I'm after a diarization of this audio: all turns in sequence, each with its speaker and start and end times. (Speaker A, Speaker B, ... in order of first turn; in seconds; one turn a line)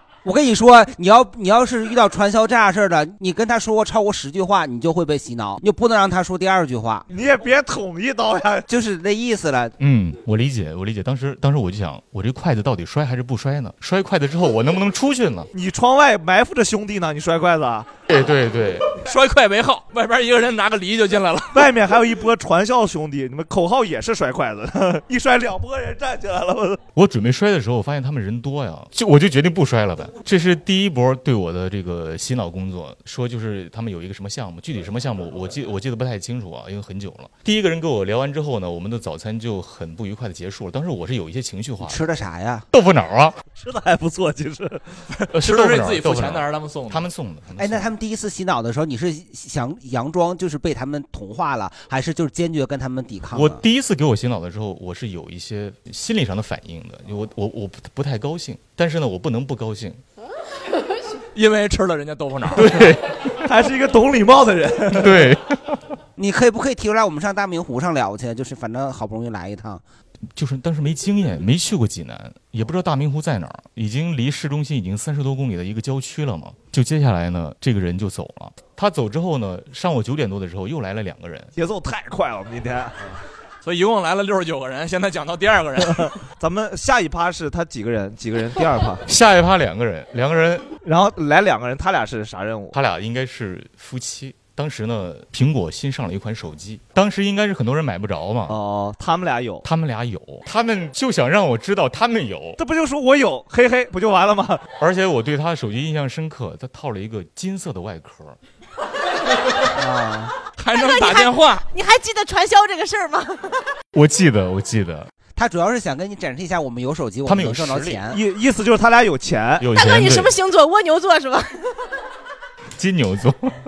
Speaker A: 0.2-7.0
Speaker B: 7.1-8.7
Speaker A: 8.7-9.7
Speaker C: 9.8-15.5
Speaker B: 15.5-17.9
Speaker C: 18.1-19.0
Speaker D: 19.0-21.7
Speaker B: 21.5-26.8
Speaker C: 26.9-42.0
Speaker A: 41.8-42.6
Speaker C: 42.7-43.3
Speaker B: 43.5-44.8
Speaker D: 45.1-47.0
Speaker C: 45.3-47.9
Speaker A: 47.6-53.6
Speaker C: 53.3-60.0
Speaker D: 61.3-62.9
Speaker C: 62.5-63.0
Speaker B: 63.4-65.3
Speaker C: 64.9-65.5
Speaker A: 66.2-69.8
Speaker C: 70.3-81.5
Speaker B: 81.5-83.2
Speaker D: 83.6-86.1
Speaker B: 86.0-89.0
Speaker C: 89.0-90.7
Speaker B: 90.8-92.8
Speaker C: 92.7-98.6
Speaker B: 98.5-99.6
Speaker C: 99.6-102.6
Speaker B: 102.6-104.6
Speaker C: 104.8-108.4
Speaker A: 109.8-110.3
Speaker D: 110.6-111.6
Speaker E: 110.8-113.5
Speaker C: 113.9-115.1
Speaker A: 115.3-118.2
Speaker C: 117.2-118.0
Speaker B: 118.1-119.6
Speaker C: 119.6-120.3
Speaker E: 119.8-121.4
Speaker C: 122.8-123.5